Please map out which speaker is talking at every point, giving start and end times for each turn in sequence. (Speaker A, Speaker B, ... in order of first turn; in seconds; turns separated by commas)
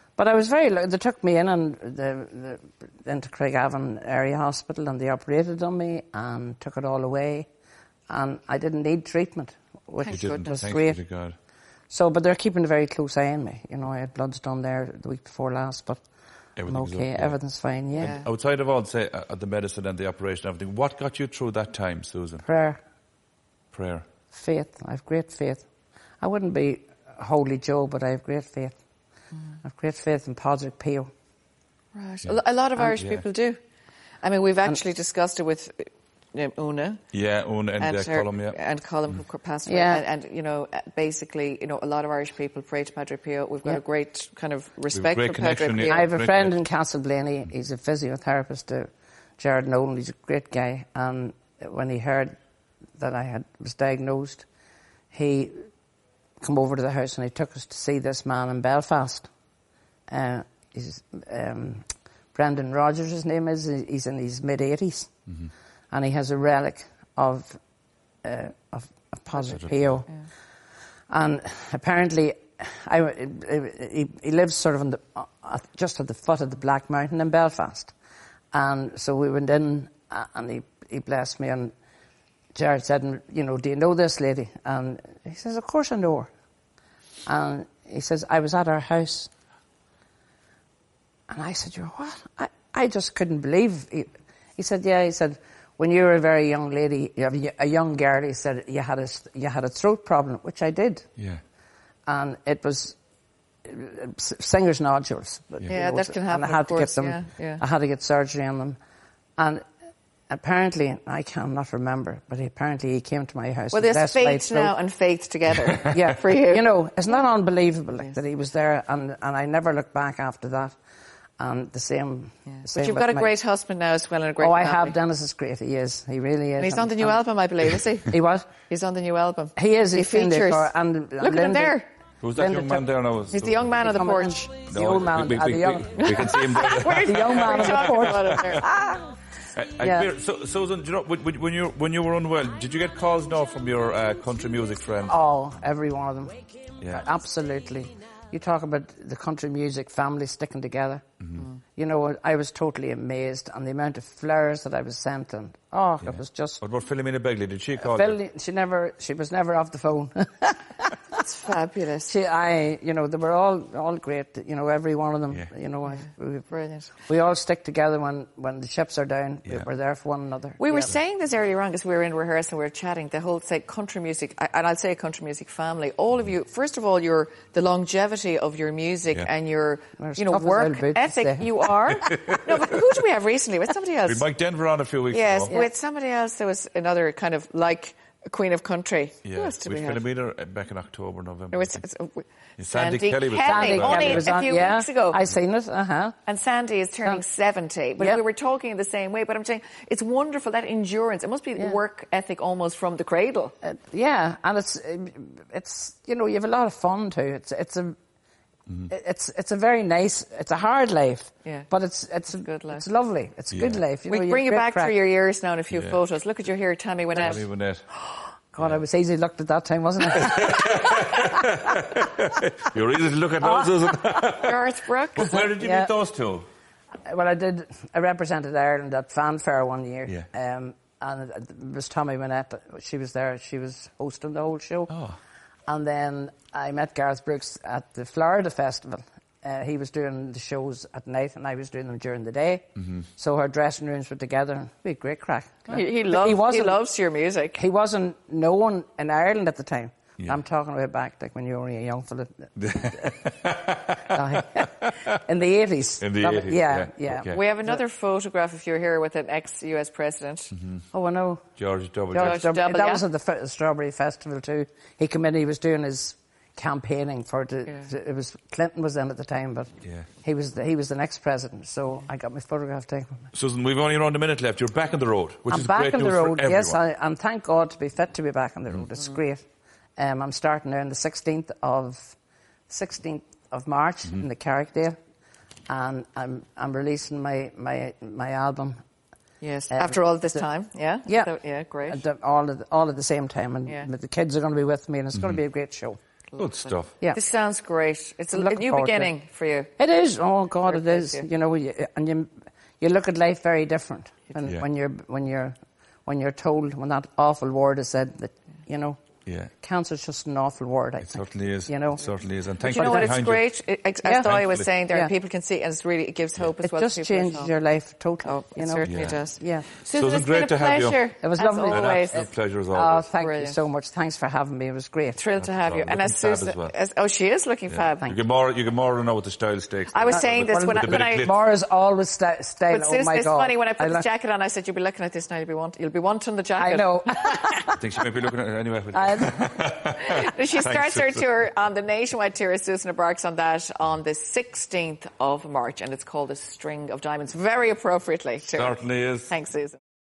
Speaker A: 0.2-7.5, Speaker A: 8.1-11.0, Speaker B: 10.0-10.5, Speaker C: 10.1-11.3, Speaker A: 11.9-16.0, Speaker C: 16.6-17.4, Speaker A: 16.6-18.2, Speaker C: 18.0-22.4, Speaker B: 18.0-18.2, Speaker A: 22.4-22.8, Speaker C: 23.7-24.0, Speaker A: 24.3-25.6, Speaker A: 26.2-28.8, Speaker A: 29.6-31.1, Speaker B: 31.9-33.6, Speaker C: 33.0-33.3, Speaker B: 34.2-37.0, Speaker C: 37.1-38.5, Speaker B: 37.8-46.1, Speaker A: 39.6-40.0, Speaker C: 44.9-46.6, Speaker A: 45.8-52.3, Speaker A: 53.0-54.5, Speaker A: 55.1-55.7, Speaker A: 56.4-59.3, Speaker A: 60.1-65.1, Speaker A: 65.9-67.6, Speaker A: 68.2-70.1, Speaker C: 69.5-70.0, Speaker A: 71.1-77.9, Speaker A: 78.5-81.7, Speaker A: 82.5-86.3, Speaker A: 87.2-89.3, Speaker A: 91.3-101.1, Speaker C: 101.2-101.4, Speaker A: 102.0-103.0, Speaker A: 103.6-108.8, Speaker B: 105.7-107.6, Speaker A: 109.4-109.6, Speaker A: 110.3-114.8, Speaker B: 113.7-116.6, Speaker A: 115.8-120.8, Speaker A: 121.4-123.3, Speaker B: 122.5-125.0, Speaker A: 124.4-127.3, Speaker B: 126.6-128.1, Speaker A: 128.1-128.5, Speaker B: 128.7-131.9, Speaker A: 129.6-131.8, Speaker C: 132.2-133.8, Speaker A: 132.3-132.9, Speaker B: 133.3-134.6, Speaker A: 133.8-136.3, Speaker C: 134.6-137.9, Speaker B: 136.0-138.7, Speaker A: 137.0-139.1, Speaker C: 139.5-145.1, Speaker A: 139.8-140.1, Speaker A: 145.1-151.0, Speaker C: 146.8-147.1, Speaker C: 151.2-151.5, Speaker A: 151.8-156.6, Speaker C: 156.0-158.2, Speaker A: 157.8-160.9, Speaker B: 161.2-162.1, Speaker A: 162.1-166.5, Speaker B: 166.5-166.9, Speaker A: 167.1-170.9, Speaker B: 170.6-184.3, Speaker A: 180.0-181.5, Speaker C: 181.9-182.4, Speaker C: 184.0-185.5, Speaker B: 185.1-190.0, Speaker C: 189.2-191.8, Speaker B: 191.5-195.2, Speaker C: 192.6-194.3, Speaker A: 193.4-196.2, Speaker B: 196.2-203.5, Speaker A: 203.6-207.9, Speaker A: 208.9-214.9, Speaker B: 211.4-211.7, Speaker B: 212.3-212.8, Speaker C: 213.5-213.8, Speaker B: 214.1-217.4, Speaker C: 215.7-216.0, Speaker C: 217.2-217.8, Speaker A: 218.5-221.2, Speaker C: 218.6-218.8, Speaker C: 220.1-224.6, Speaker A: 223.4-224.2, Speaker B: 224.4-225.4, Speaker C: 225.1-226.4, Speaker A: 225.5-225.9, Speaker A: 227.1-234.9, Speaker C: 234.9-235.2, Speaker A: 235.7-246.8, Speaker B: 245.7-247.6, Speaker A: 247.5-253.2, Speaker C: 252.6-254.2, Speaker A: 254.1-257.8, Speaker C: 254.8-255.1, Speaker C: 256.0-257.4, Speaker B: 257.3-260.5, Speaker C: 260.5-260.8, Speaker A: 260.9-261.4, Speaker C: 261.6-262.4, Speaker A: 262.1-269.7, Speaker B: 262.2-263.1, Speaker A: 270.2-273.2, Speaker C: 273.3-276.8, Speaker A: 275.5-279.4, Speaker A: 280.0-282.1, Speaker A: 282.7-285.0, Speaker A: 285.7-288.8, Speaker B: 289.4-292.0, Speaker A: 289.7-290.4, Speaker A: 291.1-291.3, Speaker A: 291.8-296.0, Speaker C: 295.1-295.4, Speaker B: 296.3-299.7, Speaker C: 296.4-296.9, Speaker A: 298.3-299.1, Speaker A: 299.8-309.0, Speaker B: 300.6-301.2, Speaker C: 309.2-309.5, Speaker A: 309.6-312.1, Speaker C: 311.1-313.5, Speaker B: 312.6-317.5, Speaker A: 312.7-313.1, Speaker A: 314.0-314.3, Speaker C: 314.2-314.7, Speaker A: 316.6-319.6, Speaker B: 318.2-322.2, Speaker C: 318.8-319.2, Speaker C: 319.9-321.1, Speaker A: 321.2-325.2, Speaker C: 321.7-323.1, Speaker B: 323.2-323.6, Speaker B: 325.2-328.1, Speaker C: 325.4-326.7, Speaker C: 327.7-331.4, Speaker B: 329.9-331.3, Speaker A: 330.1-334.0, Speaker B: 332.7-337.5, Speaker A: 336.6-337.8, Speaker C: 337.8-341.2, Speaker A: 338.9-339.6, Speaker B: 340.0-349.8, Speaker C: 348.4-349.3